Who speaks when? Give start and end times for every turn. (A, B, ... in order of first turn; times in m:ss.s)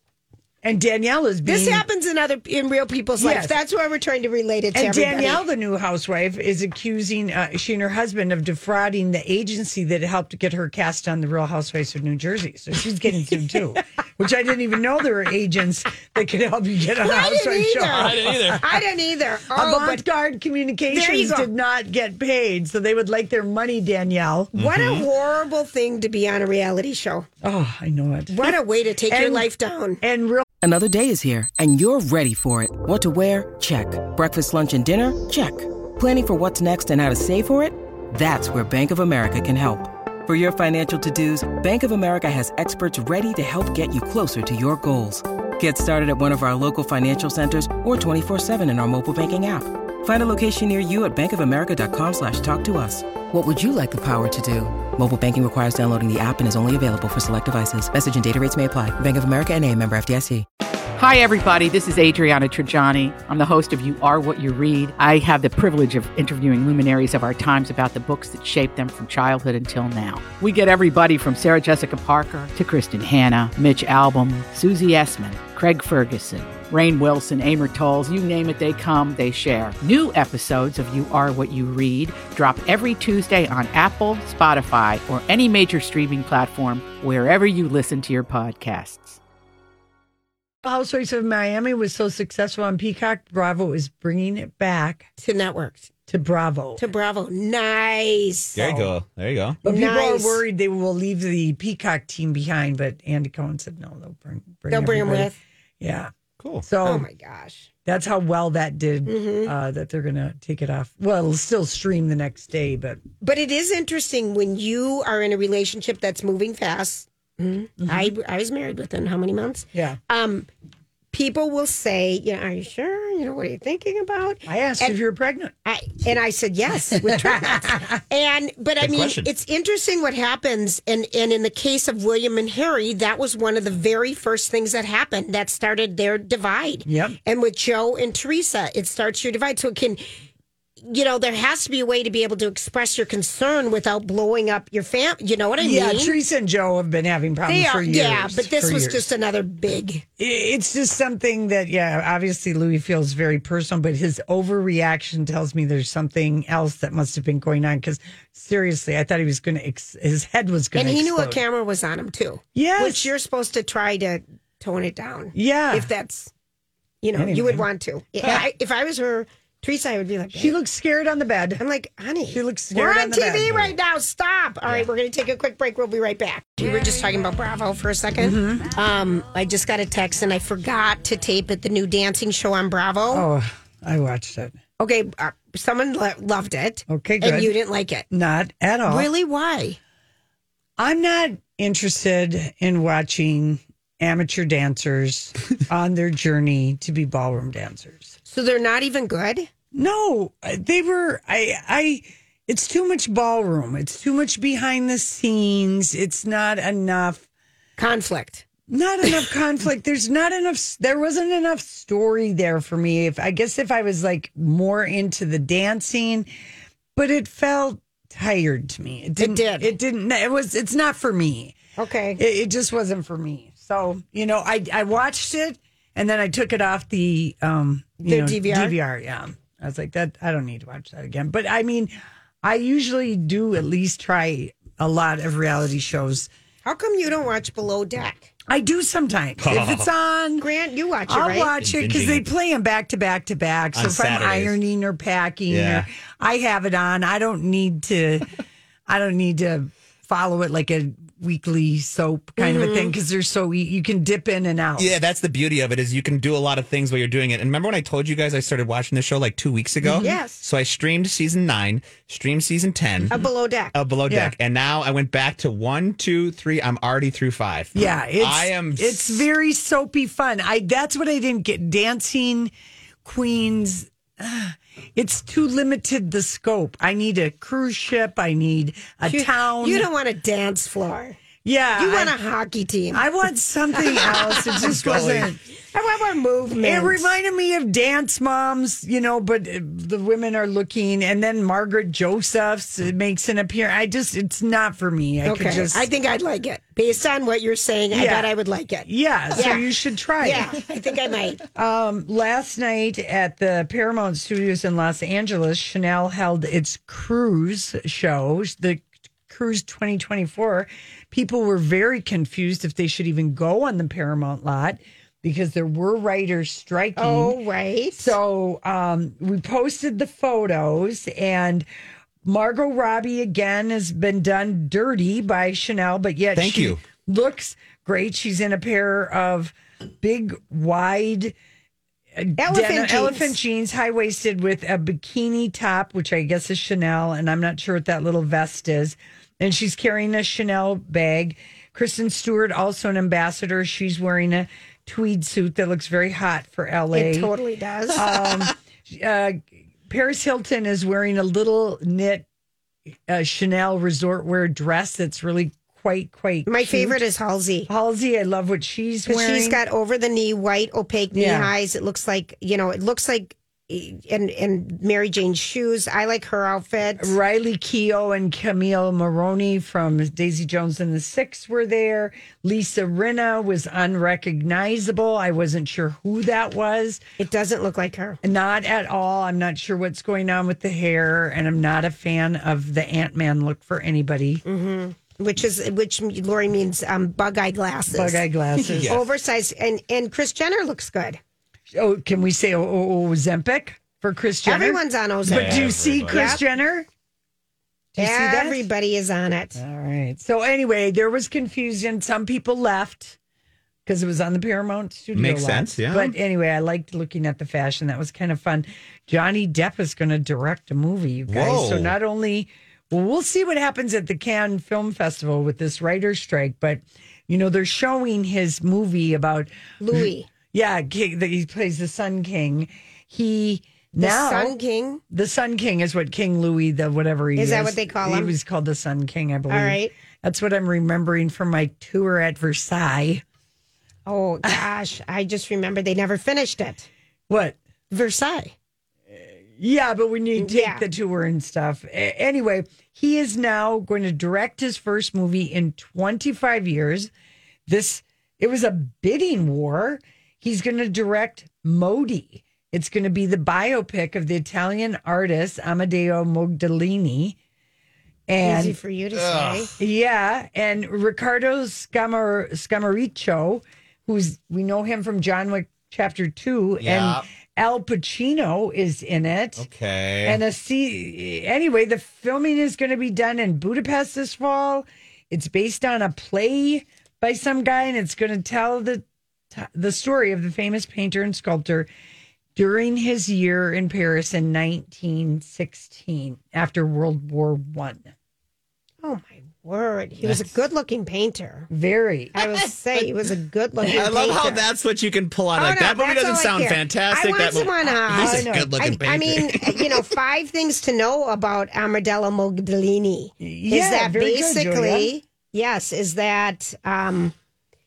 0:00.6-0:01.8 A
0:01.5-0:05.4 B
0:03.2-0:03.6 A
0:04.8-0:18.8 A
0:17.0-0:20.0 B
0:17.9-0:18.6 C
0:19.5-0:24.6 A
0:20.9-0:21.5 B
0:24.6-0:25.1 C
0:24.6-0:27.3 B
0:27.4-0:28.6 A
0:28.3-0:30.0 B
0:29.1-0:29.5 A
0:30.0-0:30.4 A
0:30.6-1:00.5 D
1:00.9-1:29.2 E
1:30.6-1:35.1 A
1:35.2-1:35.9 B
1:36.1-1:36.8 A
1:36.8-1:38.6 B
1:38.6-1:39.6 C
1:38.6-1:38.9 A
1:39.6-1:46.1 A
1:39.6-1:40.4 B
1:44.7-1:45.4 B
1:46.4-1:46.6 C
1:46.6-1:47.0 A
1:46.8-1:47.7 B
1:47.9-1:53.0 A
1:49.1-1:49.5 B
1:53.2-2:00.5 B
1:57.8-1:58.1 A
2:01.1-2:05.0 B
2:04.5-2:05.5 A
2:05.6-2:20.0 B
2:07.0-2:08.0 A
2:08.8-2:09.3 C
2:16.9-2:17.2 A
2:20.8-2:26.2 B
2:25.6-2:29.1 A
2:27.5-2:30.0 B
2:30.2-2:41.4 A
2:40.8-2:46.3 B
2:42.6-2:43.1 A
2:45.3-2:45.9 A
2:47.0-2:50.6 B
2:47.2-2:47.7 A
2:50.4-2:51.6 A
2:51.6-3:03.3 B
2:52.3-2:53.7 A
2:58.2-2:58.7 A
3:03.1-3:04.6 A
3:04.8-3:08.1 B
3:06.9-3:07.5 A
3:08.1-3:09.1 A
3:08.9-3:09.8 B
3:10.8-3:18.2 A
3:18.3-3:19.5 B
3:19.7-3:27.3 A
3:27.8-3:28.5 B
3:28.7-3:36.3 A
3:37.0-3:41.6 A
3:39.2-3:39.7 B
3:41.8-3:42.2 B
3:42.2-3:51.9 A
3:48.0-3:48.8 B
3:52.4-3:56.3 A
3:56.6-3:58.3 B
3:58.5-4:00.5 A
3:59.4-3:59.9 C
4:00.4-4:01.5 B
4:01.1-4:08.3 A
4:01.6-4:02.3 C
4:03.7-4:04.6 C
4:05.5-4:05.8 C
4:08.9-4:14.9 A
4:12.4-4:12.9 B
4:14.8-4:23.2 C
4:19.8-4:20.1 A
4:20.0-4:20.4 B
4:23.1-4:23.7 B
4:23.7-4:29.3 C
4:24.1-4:24.3 A
4:27.7-4:32.5 A
4:33.0-4:39.9 A
4:39.1-4:41.2 B
4:41.4-4:42.1 A
4:41.8-4:43.0 B
4:42.9-4:45.4 A
4:43.8-4:47.1 B
4:44.5-4:45.3 C
4:46.6-4:55.9 A
4:55.2-4:59.6 B
4:57.9-4:58.3 A
4:58.8-5:00.6 A
5:00.2-5:01.4 B
5:01.6-5:17.4 A
5:17.0-5:18.2 B
5:18.0-5:21.7 A
5:22.2-5:31.4 A
5:26.4-5:26.8 C
5:32.2-5:47.3 A
5:32.4-5:33.4 B
5:46.9-5:48.1 B
5:48.0-5:52.3 A
5:53.1-5:57.0 A
5:56.5-5:57.7 B
5:57.7-5:59.6 A
5:59.1-6:07.1 B
6:01.1-6:01.5 A
6:07.0-6:17.0 A
6:17.2-6:18.2 B
6:18.2-6:24.4 A
6:24.4-6:28.2 B
6:27.9-6:29.0 A
6:28.6-6:29.0 C
6:28.9-6:31.2 B
6:31.7-6:36.9 A
6:34.4-6:36.4 B
6:35.2-6:36.3 C
6:37.9-6:38.6 A
6:38.0-6:39.6 B
6:39.6-6:43.2 A
6:43.9-7:04.5 A
6:45.2-6:46.2 C
6:51.3-6:52.0 C
6:59.8-7:00.3 B
7:04.0-7:05.0 B
7:05.1-7:13.2 A
7:07.4-7:08.3 B
7:09.5-7:09.9 B
7:14.1-7:16.9 B
7:17.3-7:17.6 A
7:17.9-7:18.5 B
7:19.1-7:27.1 A
7:20.4-7:20.8 B
7:27.7-7:37.4 A
7:38.3-7:38.8 A
7:38.4-7:39.8 B
7:39.1-7:39.8 C
7:39.8-7:49.6 A
7:46.8-7:47.2 C
7:49.6-7:50.4 C
7:50.2-8:01.9 A
8:02.6-8:08.1 A
8:09.0-8:11.7 B
8:11.7-8:12.7 A
8:12.4-8:14.7 B
8:13.8-8:19.8 C
8:15.5-8:27.3 B
8:18.1-8:18.7 A
8:23.4-8:25.1 A